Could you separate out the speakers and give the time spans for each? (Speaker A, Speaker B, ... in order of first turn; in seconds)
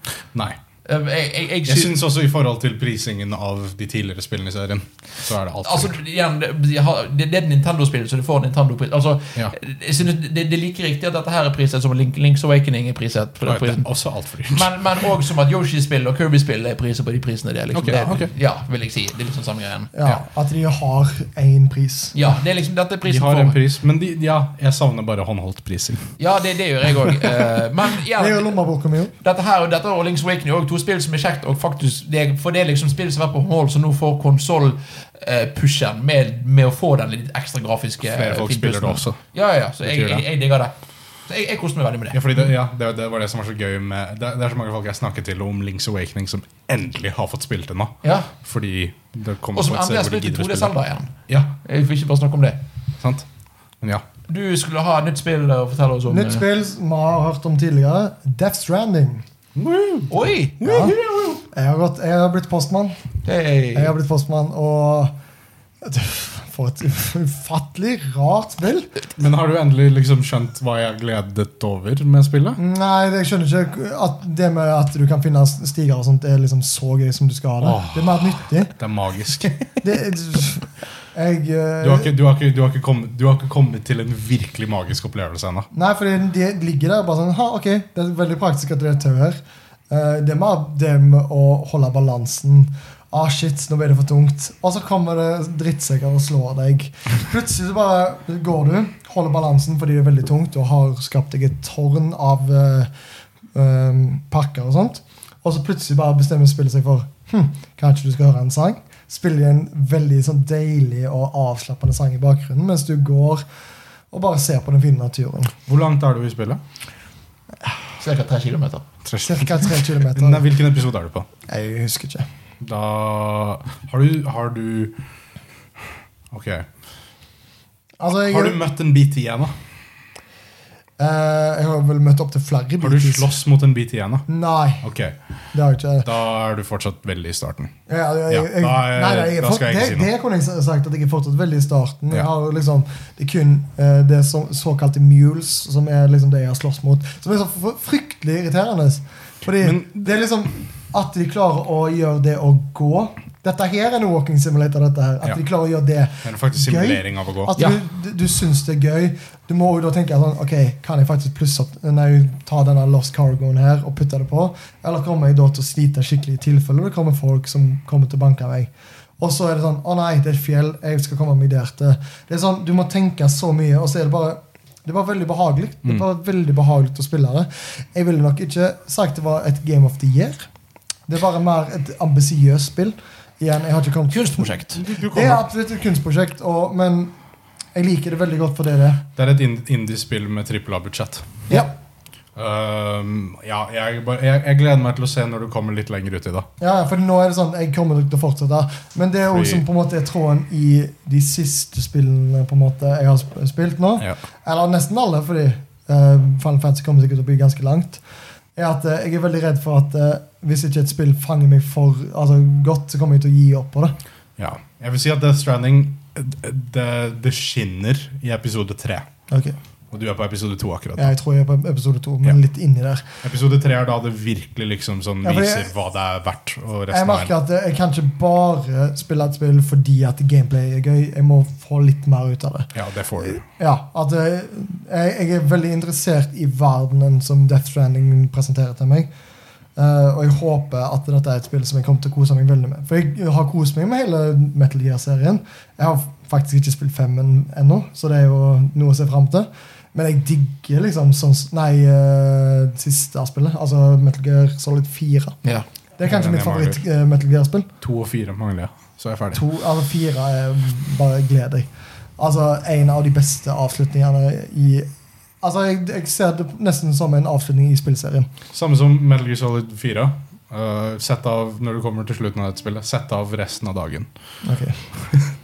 Speaker A: 0.8-1.9, 5.6-13.9, 14.5-19.9, 22.1-23.6, 26.2-28.6, 29.2-40.7, 41.3-42.2, 48.0-48.3, 49.5-52.6, 54.3-56.4, 60.1-61.0, 63.2-63.9, 118.0-118.8, 184.1-184.8
Speaker B: 1.7-6.0, 13.5-14.7, 17.7-18.3, 23.1-26.2, 38.0-39.2, 39.8-40.3, 42.1-50.7, 51.3-51.5, 53.0-53.3, 59.6-61.4, 69.2-72.6, 77.6-79.5, 81.8-85.7, 115.7-116.6, 119.0-121.3, 122.6-125.0, 126.3-126.7, 128.3-129.6, 132.8-134.3, 134.8-135.2, 136.0-137.7, 138.3-140.1, 149.6-150.1, 156.2-157.6, 184.7-185.4, 189.2-191.5, 192.4-196.5, 199.3-199.6, 214.4-219.1, 219.9-221.1, 223.2-227.3, 232.8-233.4, 256.0-256.8, 257.8-259.4, 268.5-274.1
Speaker C: 19.9-22.1, 28.2-29.1, 56.1-59.2, 60.6-61.0, 61.5-63.0, 63.7-65.1, 65.8-68.9, 72.6-78.7, 79.8-82.1, 85.7-89.4, 89.9-102.9, 103.5-113.4, 114.1-115.5, 119.2-120.5, 121.5-122.3, 128.0-128.6, 131.0-133.3, 134.3-134.8, 135.5-136.1, 137.9-180.5, 181.1-184.6, 185.1-187.1, 187.7-189.1, 196.6-208.0, 208.6-214.0, 219.3-219.6, 221.0-223.0, 225.2-225.7, 226.9-239.1, 239.8-255.4, 256.0-257.7, 259.3-264.9, 265.4-268.3, 274.4-275.1